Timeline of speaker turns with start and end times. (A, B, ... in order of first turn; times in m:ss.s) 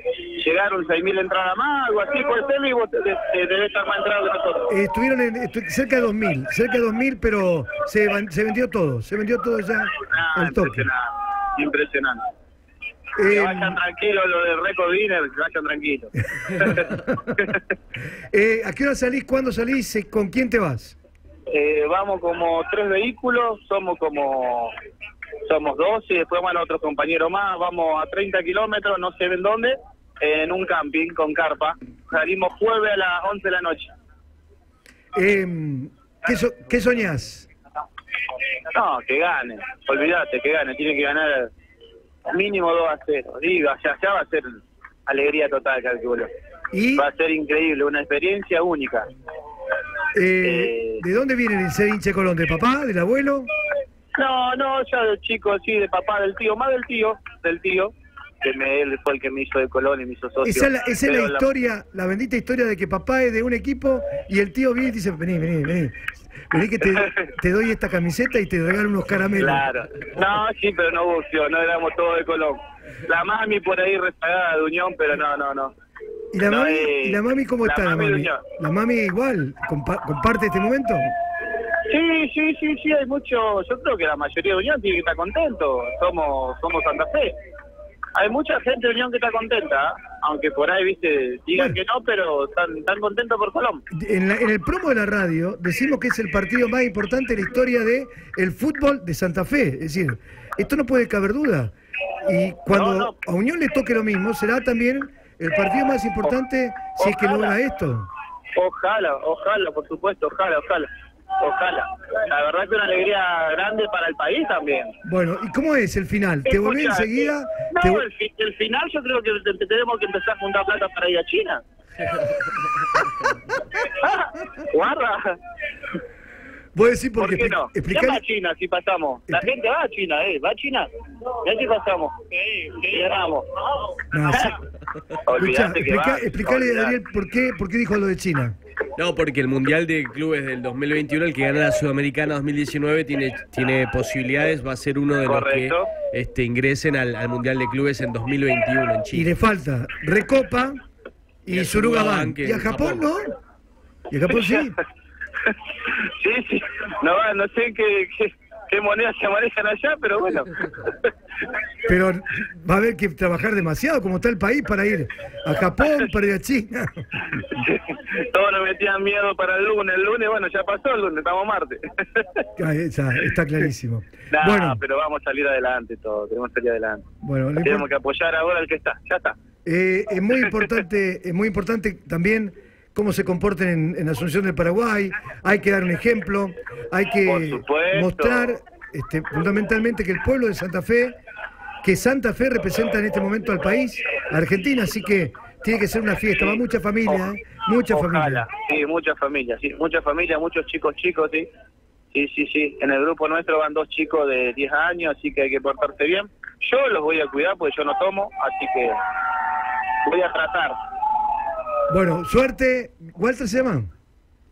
0:00.4-0:04.7 A
0:04.7-0:10.9 B
0:10.0-0:12.3 A
0:13.2-0:13.8 B
0:13.3-0:16.9 A
0:16.6-0:17.5 B
0:18.3-0:21.0 B
0:21.5-0:24.7 A
0:25.4-0:33.9 A
0:35.1-0:37.5 B
0:38.7-0:41.5 A
0:42.2-0:46.3 A
0:46.7-0:47.1 B
0:47.0-0:49.1 A
0:50.1-0:53.5 B
0:50.4-0:51.0 A
0:54.1-1:01.4 A
1:00.4-1:09.6 B
1:06.8-1:07.3 A
1:09.4-1:15.7 A
1:16.3-1:21.1 B
1:16.4-1:18.4 A
1:21.9-1:27.4 A
1:28.1-1:33.8 A
1:33.9-1:48.1 B
1:42.7-1:43.1 A
1:47.0-1:47.6 A
1:48.6-1:50.9 A
1:51.4-1:54.9 A
1:55.0-1:58.0 B
1:56.4-2:01.6 A
2:03.8-2:05.4 A
2:06.7-2:08.2 B
2:07.2-2:13.5 A
2:14.1-2:14.6 B
2:15.2-2:17.0 A
2:15.4-2:18.6 B
2:19.0-2:29.3 C
2:25.2-2:25.9 A
2:29.1-2:30.8 B
2:31.4-2:33.4 B
2:31.5-2:33.0 C
2:34.1-2:34.8 B
2:35.4-2:41.1 A
2:41.8-2:47.6 B
2:47.4-2:52.4 A
2:52.6-2:54.8 B
2:54.3-2:57.0 A
2:57.2-2:57.9 B
2:57.6-2:59.4 A
2:59.6-3:11.2 B
3:07.2-3:08.5 A
3:11.8-3:18.5 B
3:16.4-3:17.3 A
3:17.9-3:21.5 A
3:22.1-3:29.0 A
3:30.0-3:30.8 A
3:31.9-3:33.9 B